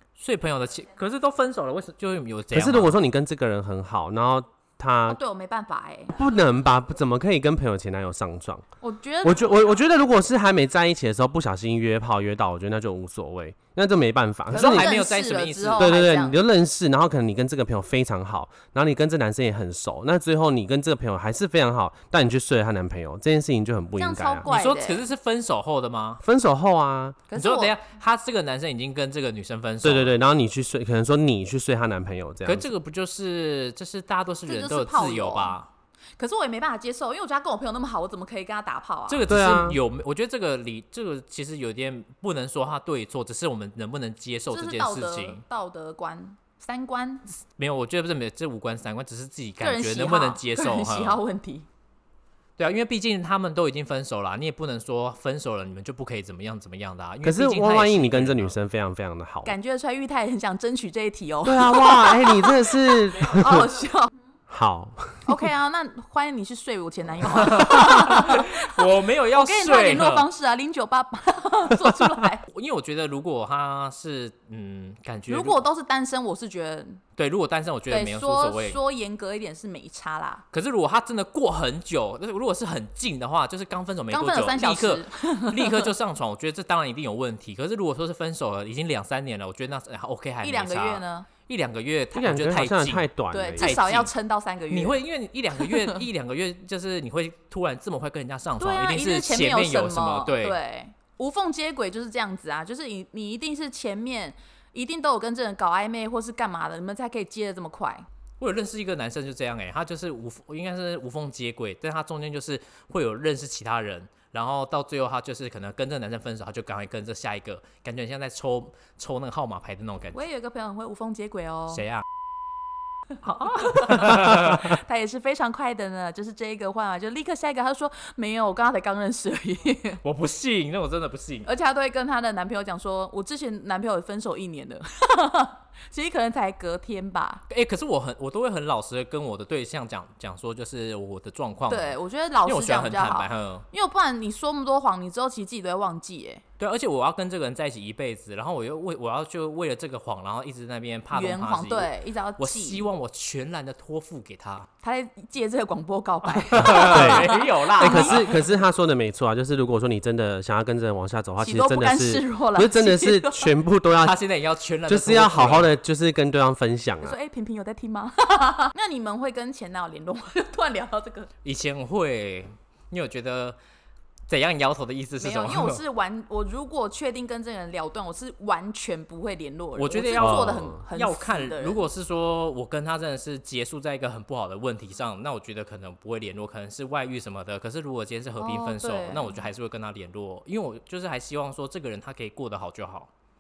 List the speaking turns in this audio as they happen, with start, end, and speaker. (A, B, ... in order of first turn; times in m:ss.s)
0:00.2-0:03.0 A
0:02.5-0:05.2 B
0:05.1-0:06.4 C
0:06.2-0:08.6 B
0:08.8-0:09.5 C
0:09.2-0:14.9 B
0:14.5-0:16.0 A
0:14.5-0:16.4 C
0:15.8-0:24.5 B
0:24.0-0:25.0 C
0:24.5-0:26.2 A
0:26.2-0:27.2 B
0:27.3-0:27.8 C
0:27.4-0:30.1 A
0:29.8-0:32.7 B
0:32.4-0:35.7 A
0:34.5-0:35.6 C
0:36.2-0:39.3 C
0:39.1-0:45.4 A
0:39.3-0:39.8 B
0:44.5-0:47.3 C
0:47.5-0:51.2 A
0:49.6-0:51.7 C
0:52.6-0:58.5 A
0:57.2-0:59.5 B
0:59.5-1:04.1 C
1:01.4-1:03.7 B
1:04.5-1:05.3 B
1:05.3-1:12.4 C
1:07.3-1:10.3 A
1:12.5-1:15.6 A
1:15.3-1:17.0 C
1:17.2-1:18.8 A
1:17.9-1:20.4 C
1:20.5-1:34.1 A
1:24.1-1:25.9 C
1:30.4-1:31.3 C
1:32.2-1:33.8 B
1:33.3-1:35.0 C
1:34.7-1:40.6 A
1:35.6-1:36.0 C
1:38.6-1:48.1 C
1:48.4-2:00.2 A
2:00.1-2:01.8 C
2:01.7-2:02.0 A
2:03.2-2:04.8 A
2:03.6-2:10.0 C
2:10.0-2:11.5 A
2:11.5-2:17.4 C
2:17.5-2:23.7 A
2:21.7-2:26.4 C
2:26.6-2:34.7 A
2:31.1-2:32.8 C
2:34.8-2:38.3 C
2:36.3-2:38.3 A
2:36.6-2:44.2 B
2:41.4-2:43.5 C
2:44.0-2:45.7 A
2:44.9-2:47.2 B
2:47.0-2:51.3 C
2:51.4-2:53.6 A
2:54.3-2:55.8 A
2:55.2-3:01.8 C
2:59.8-3:13.1 A
3:00.2-3:00.8 B
3:08.4-3:09.4 C